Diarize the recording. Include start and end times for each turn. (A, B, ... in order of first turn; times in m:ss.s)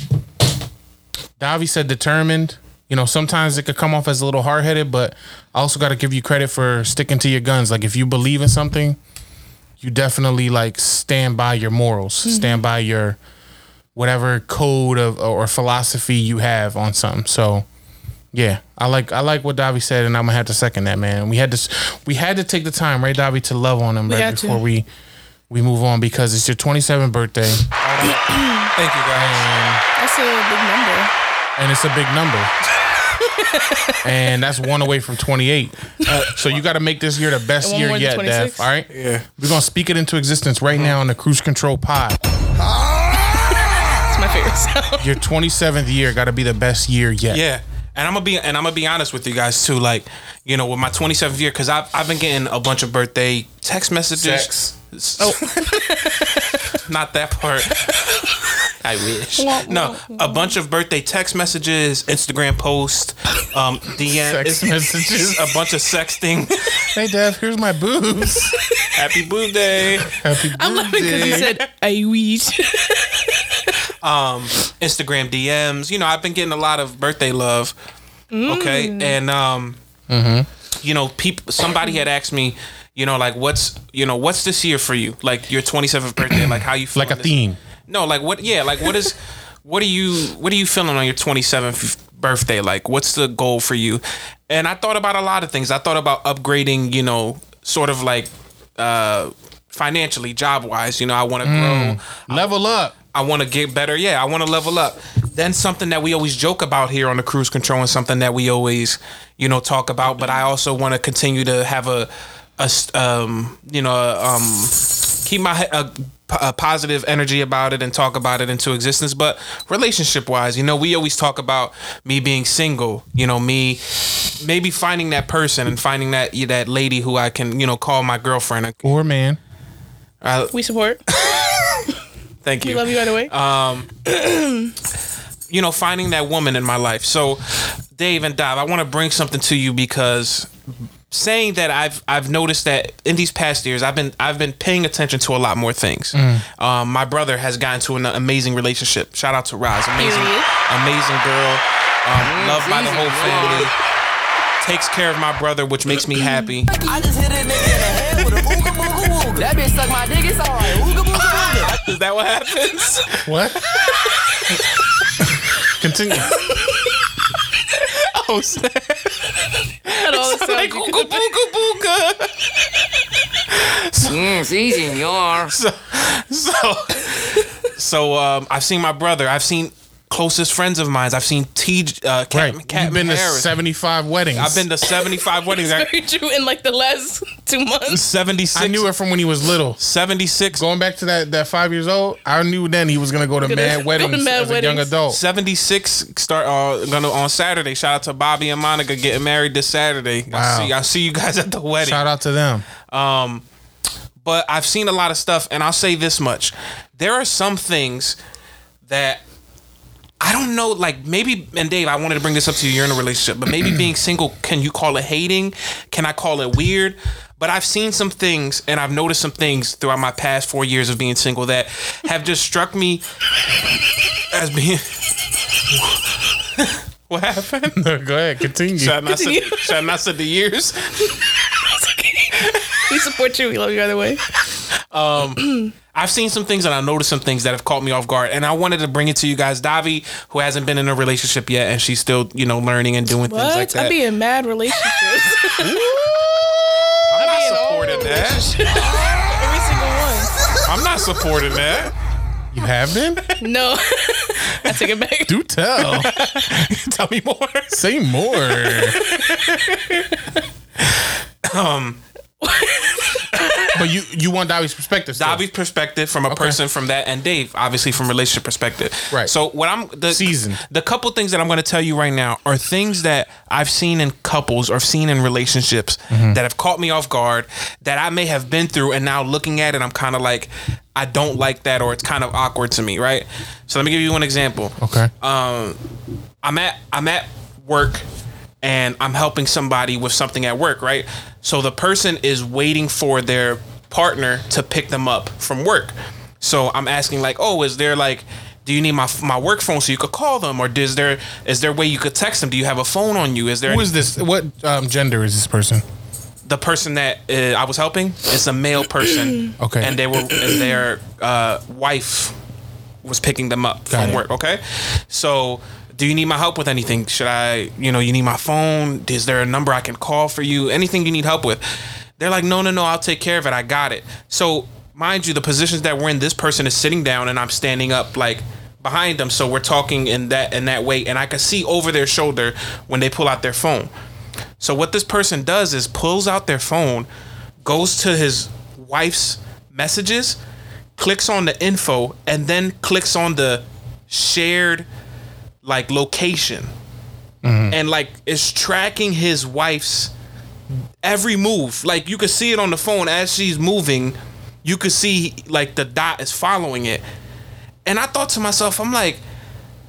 0:01.4-0:09.0 A
0:09.8-0:13.2 A
0:12.2-0:12.6 B
0:14.0-0:17.7 A
0:18.3-0:24.9 A
0:24.1-0:24.6 B
0:25.5-0:27.6 A
0:27.8-0:29.5 C
0:28.1-0:28.7 B
0:29.2-0:29.8 A
0:30.0-0:31.1 B
0:31.6-0:32.5 A
0:34.0-0:42.2 A
0:36.1-0:36.6 C
0:37.6-0:38.7 B
0:38.9-0:39.3 C
0:40.7-0:41.0 C
0:44.1-0:45.1 B
0:45.0-0:47.4 A
0:47.3-0:55.8 C
0:54.2-0:54.7 A
0:55.2-0:56.4 B
0:56.8-0:58.0 C
0:58.8-1:06.7 C
0:59.4-1:00.5 B
1:04.1-1:05.4 A
1:07.0-1:08.5 A
1:09.0-1:10.2 C
1:10.1-1:11.5 A
1:10.6-1:13.3 B
1:11.2-1:11.5 C
1:14.0-1:17.7 C
1:18.3-1:19.2 B
1:18.5-1:19.8 C
1:20.1-1:20.5 A
1:20.8-1:27.3 C
1:26.4-1:27.6 A
1:27.9-1:42.5 C
1:41.4-1:42.9 A
1:43.1-2:03.8 C
2:04.4-2:08.9 C
2:08.8-2:09.4 A
2:10.2-2:10.5 C
2:10.5-2:11.0 B
2:12.4-2:13.9 C
2:12.6-2:13.3 B
2:14.0-2:14.7 B
2:15.5-2:20.5 C
2:21.1-2:33.7 C
2:26.1-2:26.4 A
2:30.0-2:30.5 B
2:32.2-2:33.7 D
2:34.6-2:36.7 C
2:36.2-2:36.5 B
2:36.8-2:41.7 E
2:41.3-2:43.9 C
2:43.2-2:43.6 A
2:45.8-2:46.3 A
2:48.0-2:49.3 C
2:49.9-2:52.3 C
2:50.0-2:51.3 B
2:53.6-2:54.2 C
2:54.1-2:55.5 D
2:55.5-3:03.5 C
3:02.3-3:04.6 A
3:04.4-3:05.9 C
3:05.1-3:08.0 B
3:07.9-3:08.9 C
3:08.6-3:09.8 A
3:09.8-3:10.6 C
3:10.6-3:15.2 A
3:13.4-3:14.9 B
3:15.1-3:22.1 C
3:20.3-3:20.7 A
3:21.8-3:22.6 A
3:22.9-3:23.4 C
3:24.2-3:28.2 C
3:28.9-3:29.2 C
3:30.2-3:43.0 C
3:44.3-3:45.0 C
3:46.6-3:47.8 C
3:47.8-3:49.0 A
3:48.8-3:50.9 C
3:49.1-3:49.8 B
3:51.7-3:54.2 B
3:54.9-4:04.0 C
3:55.4-3:55.7 B
4:03.2-4:05.9 B
4:05.7-4:06.0 C
4:05.7-4:06.4 A
4:07.1-4:08.5 C
4:07.1-4:10.3 B
4:10.7-4:11.9 C
4:12.5-4:13.3 A
4:13.4-4:15.4 B
4:15.3-4:16.1 A
4:15.8-4:17.8 C
4:17.7-4:19.0 A
4:18.7-4:20.0 C
4:21.4-4:22.0 C
4:22.4-4:23.6 B
4:23.8-4:25.4 A
4:25.2-4:45.8 C
4:26.3-4:26.6 A
4:30.1-4:30.6 A
4:36.1-4:36.4 A
4:44.8-4:45.1 A
4:46.4-4:48.0 C
4:48.6-5:03.9 C
5:03.7-5:05.8 A
5:06.5-5:12.4 C
5:09.6-5:10.0 A
5:13.0-5:21.6 C
5:13.9-5:14.2 A
5:22.2-5:33.9 C
5:34.6-5:37.1 C
5:37.6-5:40.4 C
5:41.0-5:44.9 C
5:45.6-5:46.7 C
5:47.4-5:47.8 A
5:47.7-5:50.1 C
5:51.0-5:57.0 C
5:57.9-5:59.2 C